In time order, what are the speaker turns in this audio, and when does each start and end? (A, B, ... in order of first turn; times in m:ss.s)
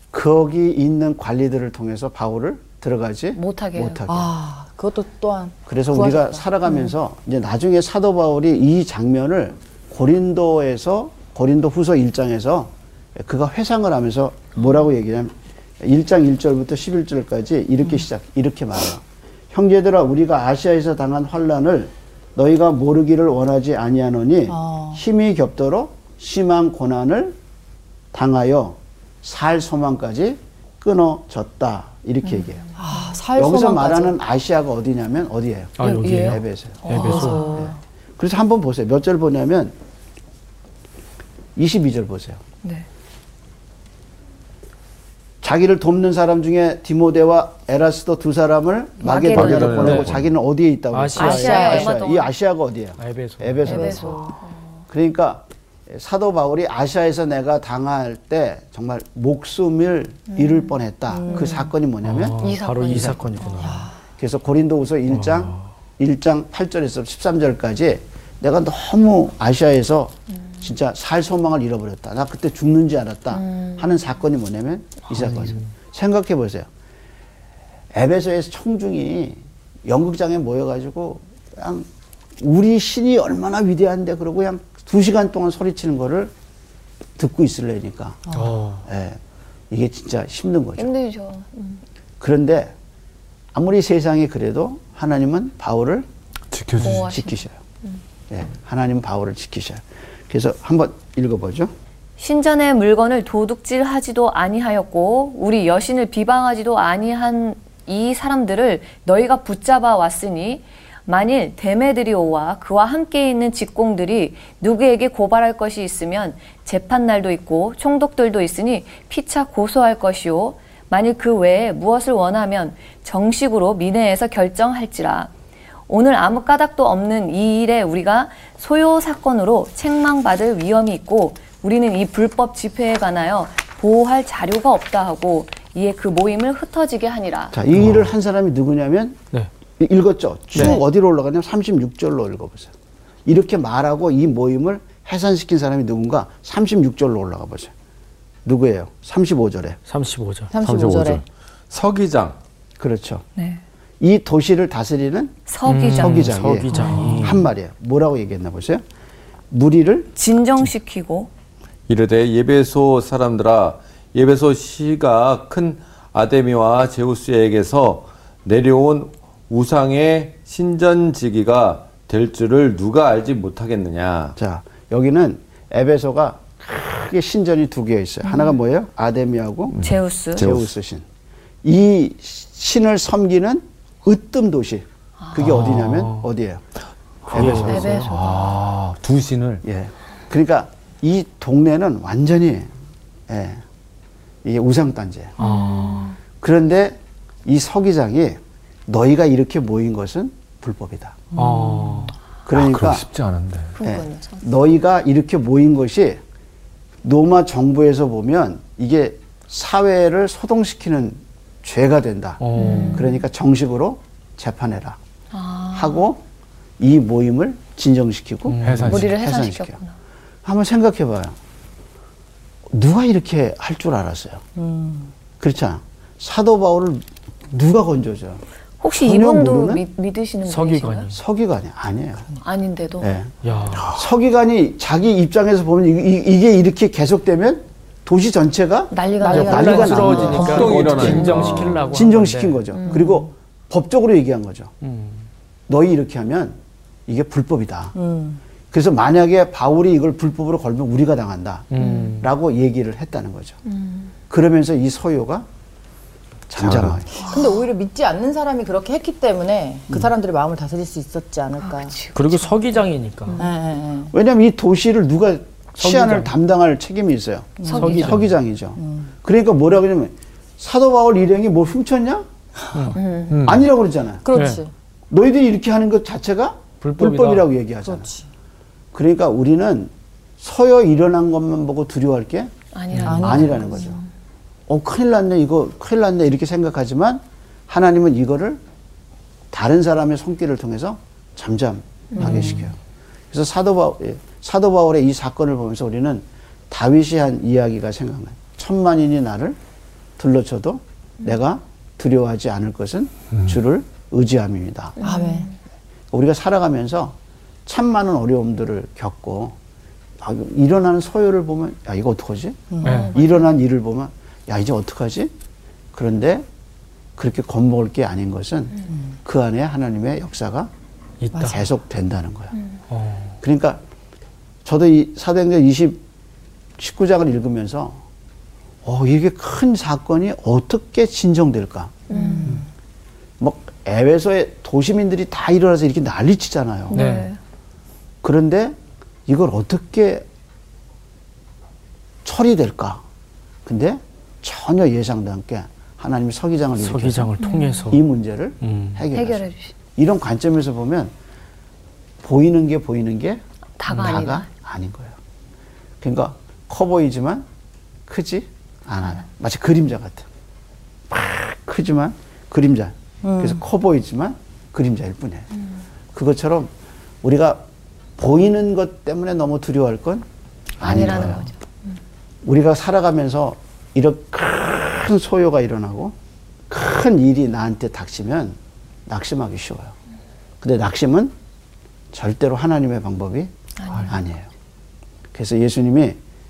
0:00.1-0:04.3 A
0:03.4-0:04.0 B
0:04.1-0:06.9 C
0:05.7-0:27.4 A
0:24.5-0:25.0 C
0:28.1-0:32.7 A
0:32.8-0:34.2 C
0:33.3-0:39.8 A
0:35.8-0:37.4 D
0:35.8-0:37.5 B
0:36.9-0:37.8 C
0:41.6-0:42.4 A
0:45.4-0:54.3 A
0:49.0-0:50.1 B
0:49.3-0:50.3 E
0:50.9-0:51.9 D
0:51.2-0:52.3 B
0:51.3-0:51.9 C
0:53.0-0:53.8 D
0:53.6-0:54.4 C
0:53.7-0:54.8 B
0:54.9-1:02.4 A
1:00.3-1:00.8 B
1:01.1-1:01.7 C
1:01.3-1:01.6 B
1:02.0-1:03.9 D
1:02.4-1:03.8 B
1:03.6-1:03.9 C
1:04.2-1:16.7 A
1:05.1-1:05.6 D
1:10.3-1:10.6 B
1:13.3-1:13.9 B
1:17.9-1:21.9 A
1:22.4-1:26.3 A
1:27.2-1:28.3 A
1:28.3-1:28.5 C
1:28.3-1:28.8 D
1:28.8-1:29.2 A
1:29.7-1:30.9 A
1:30.8-1:31.8 B
1:32.2-1:32.7 A
1:33.5-1:36.1 A
1:36.5-1:37.0 E
1:36.8-1:38.0 B
1:36.8-1:37.5 A
1:38.3-1:41.7 A
1:42.2-2:05.3 B
2:05.9-2:17.6 B
2:17.5-2:19.2 A
2:19.8-2:22.7 A
2:20.5-2:20.8 D
2:23.3-2:27.7 A
2:28.4-2:29.8 A
2:29.9-2:30.5 D
2:30.5-2:31.2 C
2:30.6-2:32.4 E
2:32.8-2:33.2 A
2:33.4-2:33.6 B
2:34.0-2:35.4 A
2:35.5-2:37.3 B
2:35.7-2:37.5 D
2:35.9-2:38.8 A
2:36.4-2:36.7 E
2:39.5-2:40.1 A
2:40.2-2:41.3 B
2:41.9-2:54.4 E
2:54.4-2:59.8 A
2:58.2-2:58.6 B
2:59.8-3:00.7 E
2:59.8-3:00.5 B
3:00.4-3:01.0 A
3:01.6-3:06.6 A
3:05.2-3:05.5 B
3:05.4-3:06.2 D
3:07.2-3:09.6 E
3:07.3-3:08.2 A
3:07.4-3:07.7 D
3:07.6-3:08.6 B
3:09.6-3:12.7 A
3:13.3-3:13.6 A
3:14.4-3:15.4 A
3:15.4-3:16.2 B
3:16.4-3:21.2 A
3:21.3-3:22.1 C
3:21.4-3:22.1 D
3:22.5-3:23.1 A
3:22.5-3:23.8 E
3:23.8-3:24.4 B
3:23.8-3:26.2 A
3:27.0-3:35.0 A
3:32.4-3:33.1 D
3:32.6-3:33.2 B
3:35.3-3:36.0 B
3:35.7-3:36.2 A
3:36.8-3:39.8 A
3:38.5-3:39.0 D
3:38.6-3:39.1 E
3:38.9-3:40.0 B
3:40.4-3:41.4 A
3:42.7-3:44.4 A
3:44.6-3:45.1 C
3:45.4-3:48.4 A
3:48.8-3:51.1 B
3:48.9-3:49.8 A
3:50.5-3:51.2 D
3:51.1-3:52.3 A
3:52.4-3:53.1 B
3:53.0-4:04.7 A
3:53.4-3:54.0 D
3:58.9-4:01.1 B
3:59.2-4:01.2 C
3:59.3-4:02.6 D
4:00.4-4:01.9 E
4:02.7-4:03.2 B
4:04.8-4:05.3 D
4:05.7-4:08.0 A
4:08.0-4:08.4 C
4:08.7-4:11.7 A
4:11.7-4:12.3 D
4:11.8-4:12.2 B
4:12.2-4:13.6 A
4:13.7-4:14.1 B
4:14.3-4:15.5 A
4:16.5-4:17.1 A
4:16.6-4:17.0 E
4:17.2-4:22.0 C
4:17.2-4:17.6 B
4:21.7-4:22.7 B
4:22.2-4:23.4 D
4:23.4-4:24.1 C
4:24.1-4:32.3 A
4:25.8-4:26.3 D
4:27.6-4:28.1 C
4:27.7-4:28.1 B
4:27.8-4:28.3 D
4:28.8-4:29.1 C
4:32.7-4:33.0 D
4:33.0-4:33.5 B
4:33.3-4:33.6 E
4:33.4-4:34.3 A
4:34.2-4:34.7 C
4:34.3-4:34.6 D
4:35.1-4:38.1 A
4:36.8-4:37.5 D
4:37.8-4:38.2 C
4:38.9-4:42.5 A
4:42.7-4:44.0 B
4:42.9-4:43.3 D
4:43.0-4:44.0 C
4:43.2-4:44.0 A
4:44.7-4:48.6 A
4:49.5-4:52.8 A
4:52.1-4:52.5 B
4:53.3-4:59.6 A
5:00.2-5:05.0 A
5:05.0-5:05.5 B
5:05.0-5:05.5 C
5:06.1-5:07.2 A
5:07.7-5:09.6 A
5:10.2-5:15.3 A
5:12.7-5:13.1 C
5:12.8-5:13.4 B
5:12.9-5:13.1 D
5:15.9-5:16.5 A
5:17.2-5:20.7 A
5:21.2-5:21.6 D
5:21.4-5:22.6 A
5:22.9-5:23.3 D
5:23.4-5:23.8 A
5:24.6-5:26.0 A
5:26.8-5:28.0 A
5:28.8-5:32.0 A
5:32.1-5:32.6 B
5:32.1-5:32.6 C
5:33.4-5:37.0 A
5:36.9-5:37.4 B
5:36.9-5:37.3 D
5:38.2-5:40.3 A
5:42.2-5:43.0 A
5:43.6-5:51.1 A
5:46.8-5:48.0 D
5:47.4-5:47.8 B
5:48.6-5:49.0 D
5:49.1-5:49.7 B
5:52.2-5:55.2 A
5:53.8-5:54.5 B
5:56.0-5:57.5 A
5:58.1-6:00.3 A
6:01.1-6:05.5 A
6:03.2-6:03.6 C
6:06.1-6:06.7 A
6:07.2-6:07.6 A
6:08.2-6:10.2 A
6:10.8-6:11.5 A
6:10.8-6:11.6 B
6:12.4-6:16.2 A
6:16.7-6:19.9 A
6:20.6-6:21.3 A
6:22.1-6:24.5 A
6:23.8-6:24.1 B
6:25.3-6:26.2 A